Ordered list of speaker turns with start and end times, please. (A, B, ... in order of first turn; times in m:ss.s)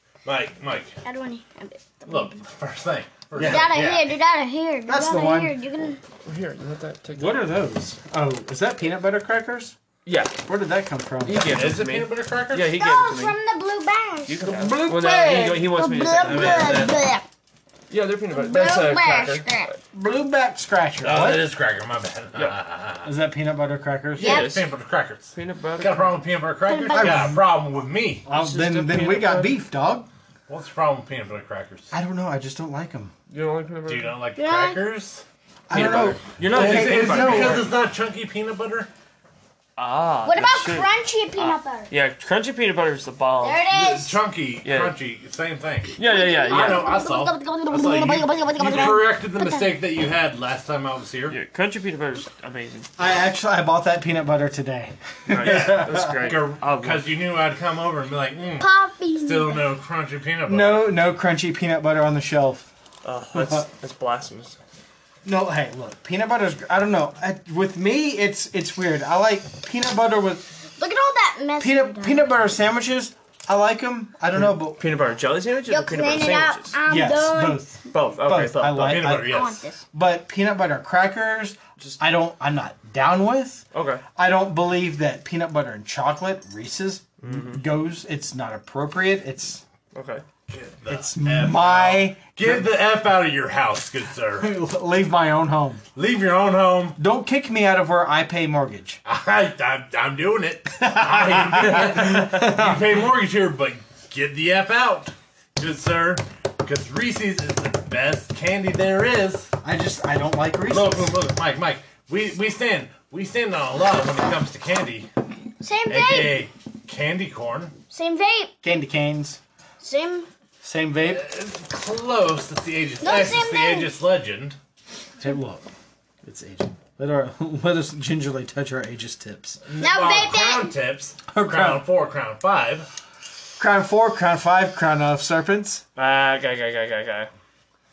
0:00.2-0:01.0 A
0:01.0-0:02.4 B
0:02.1-0:04.1 A
0:03.3-0:03.7 C
0:03.4-0:06.0 B
0:04.8-0:05.6 C
0:06.2-0:07.5 D
0:07.2-0:09.7 C
0:10.0-0:10.4 D
0:10.4-0:11.6 C
0:11.2-0:13.4 D
0:11.4-0:12.8 A
0:12.8-0:17.2 B
0:14.2-0:16.9 D
0:14.4-0:15.6 C
0:16.2-0:17.1 A
0:17.9-0:19.7 D
0:18.3-0:19.7 B
0:19.9-0:21.5 C
0:21.0-0:23.1 A
0:23.0-0:24.4 C
0:24.2-0:24.7 D
0:24.2-0:24.6 B
0:24.2-0:28.2 A
0:25.3-0:26.1 D
0:26.7-0:27.3 B
0:26.9-0:27.4 C
0:28.2-0:30.1 C
0:28.3-0:29.6 D
0:30.5-0:31.9 A
0:31.9-0:33.1 C
0:33.3-0:34.1 D
0:33.9-0:35.2 A
0:34.4-0:34.8 B
0:35.7-0:37.7 C
0:35.7-0:37.7 D
0:36.4-0:38.9 A
0:39.8-0:43.6 D
0:40.2-0:41.9 B
0:43.4-0:44.2 B
0:43.7-0:51.4 A
0:44.6-0:44.9 D
0:46.0-0:46.9 D
0:46.0-0:49.6 B
0:51.3-0:52.9 D
0:53.0-0:56.4 C
0:55.3-0:57.0 D
0:55.4-1:00.9 A
0:58.6-0:59.6 B
1:00.5-1:02.6 C
1:03.0-1:04.6 D
1:03.3-1:03.6 C
1:05.2-1:10.5 C
1:10.8-1:12.2 B
1:11.6-1:14.8 C
1:14.3-1:16.8 D
1:15.7-1:17.7 B
1:16.8-1:19.4 C
1:17.9-1:19.0 D
1:18.8-1:19.6 A
1:19.2-1:19.8 B
1:19.9-1:23.6 C
1:23.7-1:24.0 D
1:24.2-1:29.6 C
1:27.2-1:27.6 D
1:29.9-1:30.2 D
1:30.5-1:34.5 A
1:30.9-1:32.7 C
1:34.4-1:35.8 C
1:36.0-1:37.0 A
1:37.0-1:39.0 C
1:39.0-1:49.5 A
1:40.8-1:42.9 C
1:49.6-1:51.2 C
1:50.7-1:55.1 A
1:55.6-1:56.4 B
1:55.9-1:57.7 A
1:57.9-1:58.5 B
1:58.6-1:59.4 C
1:59.8-2:00.3 B
2:00.6-2:01.2 C
2:01.0-2:04.6 A
2:03.0-2:03.9 B
2:05.2-2:05.6 C
2:06.2-2:09.6 C
2:09.6-2:12.9 A
2:09.8-2:10.7 B
2:11.3-2:11.8 C
2:13.6-2:15.8 C
2:16.0-2:17.3 D